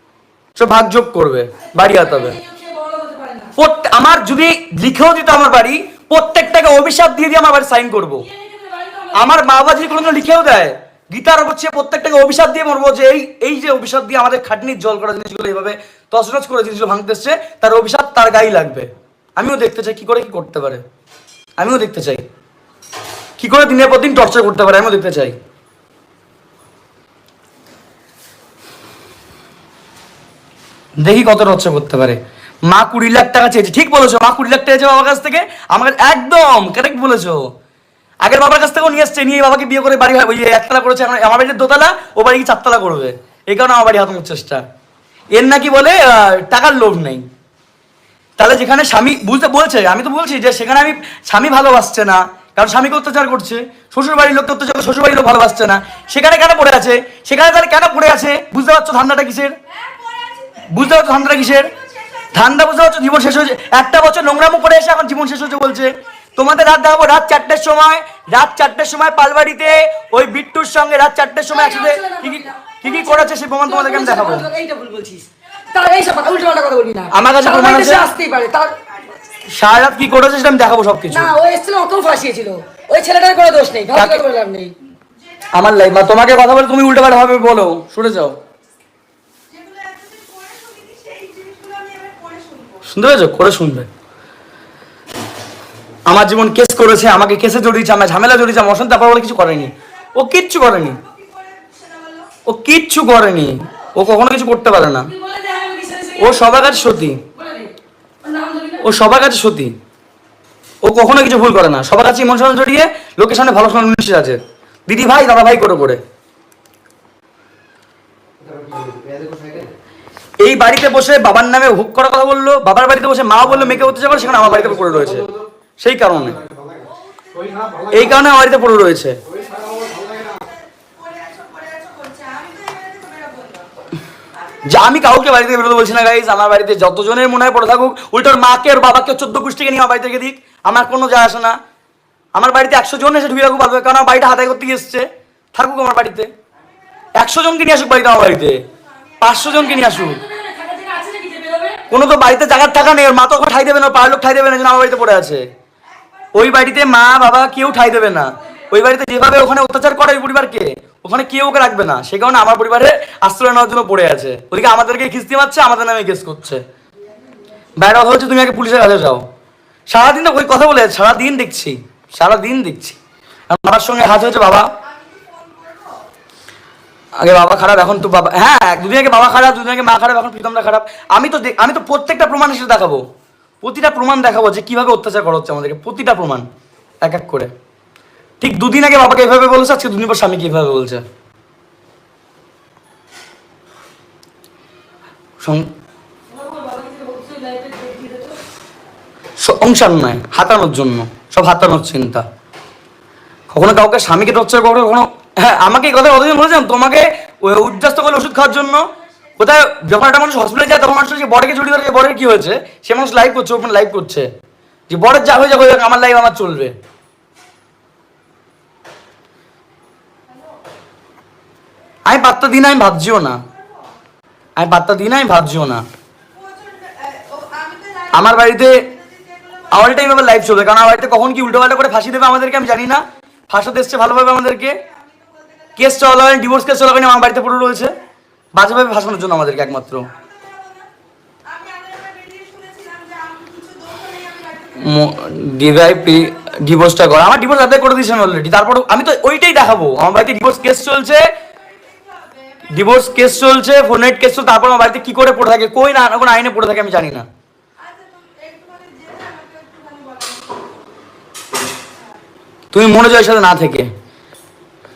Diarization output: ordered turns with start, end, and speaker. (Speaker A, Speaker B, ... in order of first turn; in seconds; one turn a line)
Speaker A: 0.6-2.4
Speaker B: 1.6-3.5
Speaker A: 3.6-8.3
Speaker B: 8.2-9.3
Speaker A: 9.1-20.8
Speaker A: 21.6-22.2
Speaker A: 23.4-25.3
Speaker A: 31.0-37.5
Speaker A: 38.2-44.6
Speaker A: 45.3-47.2
Speaker A: 48.4-59.5
Speaker C: 59.9-60.9
Speaker A: 60.6-61.7
Speaker C: 61.7-62.3
Speaker A: 62.3-74.5
Speaker B: 71.5-79.0
Speaker A: 77.1-78.1
Speaker A: 79.5-81.3
Speaker B: 81.1-84.7
Speaker A: 83.9-84.2
Speaker A: 85.5-88.3
Speaker C: 89.5-92.8
Speaker A: 92.8-93.9
Speaker A: 96.1-101.0
Speaker C: 101.0-102.3
Speaker A: 102.4-105.1
Speaker B: 105.0-109.0
Speaker A: 106.2-107.2
Speaker A: 108.8-109.7
Speaker A: 110.8-116.0
Speaker A: 120.4-125.3
Speaker A: 125.8-126.4
Speaker C: 127.2-127.9
Speaker A: 127.9-129.2
Speaker C: 129.3-133.7
Speaker A: 134.6-141.6
Speaker A: 142.3-146.3
Speaker A: 147.1-148.6
Speaker A: 149.2-150.2
Speaker B: 149.5-151.9
Speaker A: 151.9-155.4
Speaker A: 156.3-166.6
Speaker A: 167.8-169.2
Speaker A: 169.9-172.9
Speaker A: 173.5-174.7
Speaker C: 174.8-176.0
Speaker A: 177.2-183.0
Speaker A: 183.6-186.5
Speaker A: 187.0-187.5
Speaker A: 188.4-191.0
Speaker A: 195.4-195.7
Speaker B: 196.3-198.4
Speaker A: 199.4-202.2
Speaker A: 203.5-208.8
Speaker A: 209.4-214.3
Speaker A: 214.9-216.7
Speaker A: 222.1-223.4
Speaker A: 224.6-225.8
Speaker C: 226.3-229.7
Speaker A: 228.1-228.8
Speaker A: 229.7-234.8
Speaker C: 234.9-235.7
Speaker A: 235.8-237.9
Speaker A: 238.5-240.1
Speaker C: 240.2-240.9
Speaker C: 241.5-244.9
Speaker A: 244.8-251.2
Speaker C: 251.7-252.7
Speaker A: 252.7-257.2
Speaker C: 257.8-260.7
Speaker A: 262.7-263.9